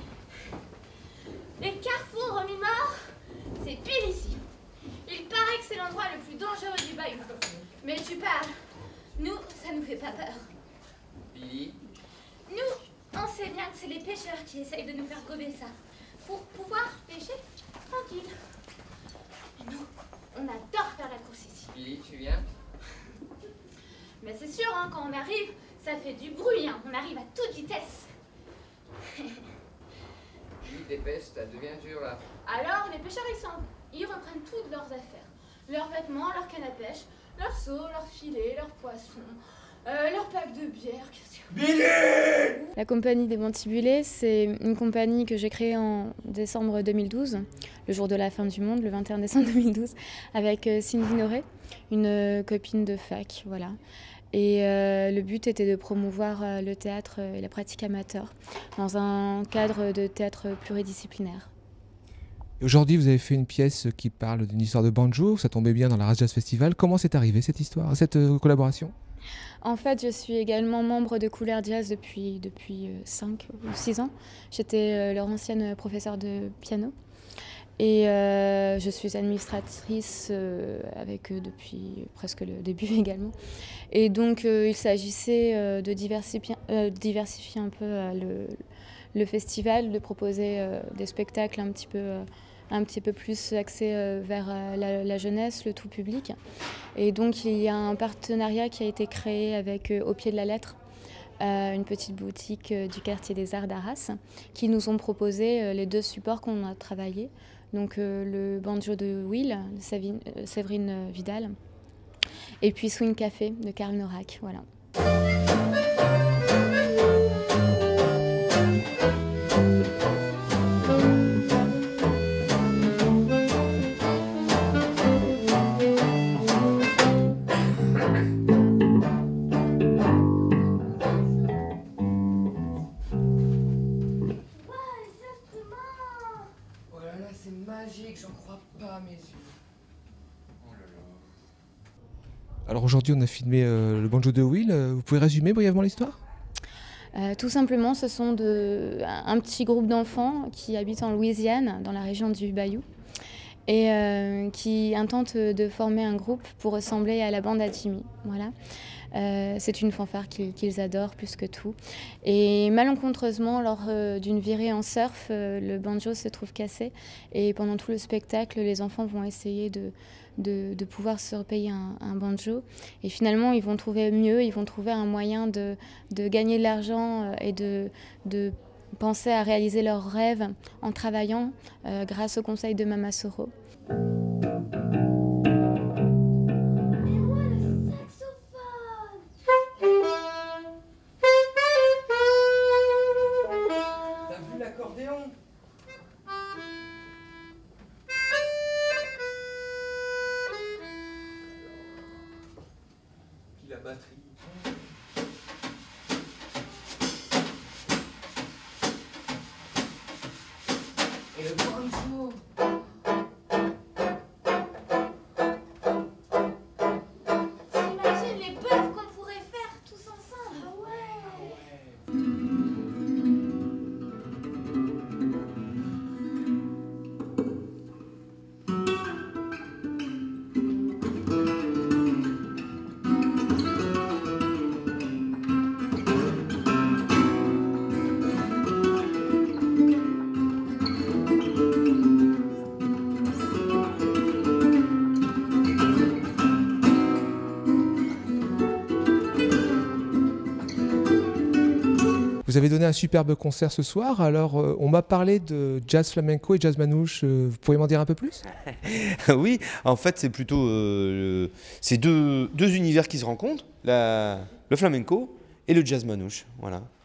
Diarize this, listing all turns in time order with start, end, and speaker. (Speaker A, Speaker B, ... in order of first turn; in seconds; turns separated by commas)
Speaker A: 1.6-3.1, Speaker A: 3.6-4.4, Speaker A: 5.0-8.5, Speaker A: 9.2-10.5, Speaker B: 11.3-11.7, Speaker A: 12.5-15.7, Speaker A: 16.2-18.3, Speaker A: 19.6-21.8, Speaker B: 21.7-22.4, Speaker A: 24.2-28.1, Speaker B: 30.7-32.2, Speaker A: 32.4-41.7, Speaker C: 42.8-53.8, Speaker C: 54.3-61.5, Speaker D: 62.6-68.9, Speaker C: 69.6-76.9, Speaker C: 77.8-83.3, Speaker C: 83.9-88.6, Speaker C: 89.1-96.4, Speaker C: 97.0-100.8, Speaker C: 101.4-111.5, Speaker C: 112.6-114.6, Speaker A: 134.6-136.4, Speaker D: 142.7-146.2, Speaker C: 147.1-152.8, Speaker C: 153.7-158.5, Speaker C: 159.1-183.5, Speaker A: 187.0-189.2, Speaker A: 217.7-221.6, Speaker D: 252.4-258.4, Speaker E: 258.8-266.9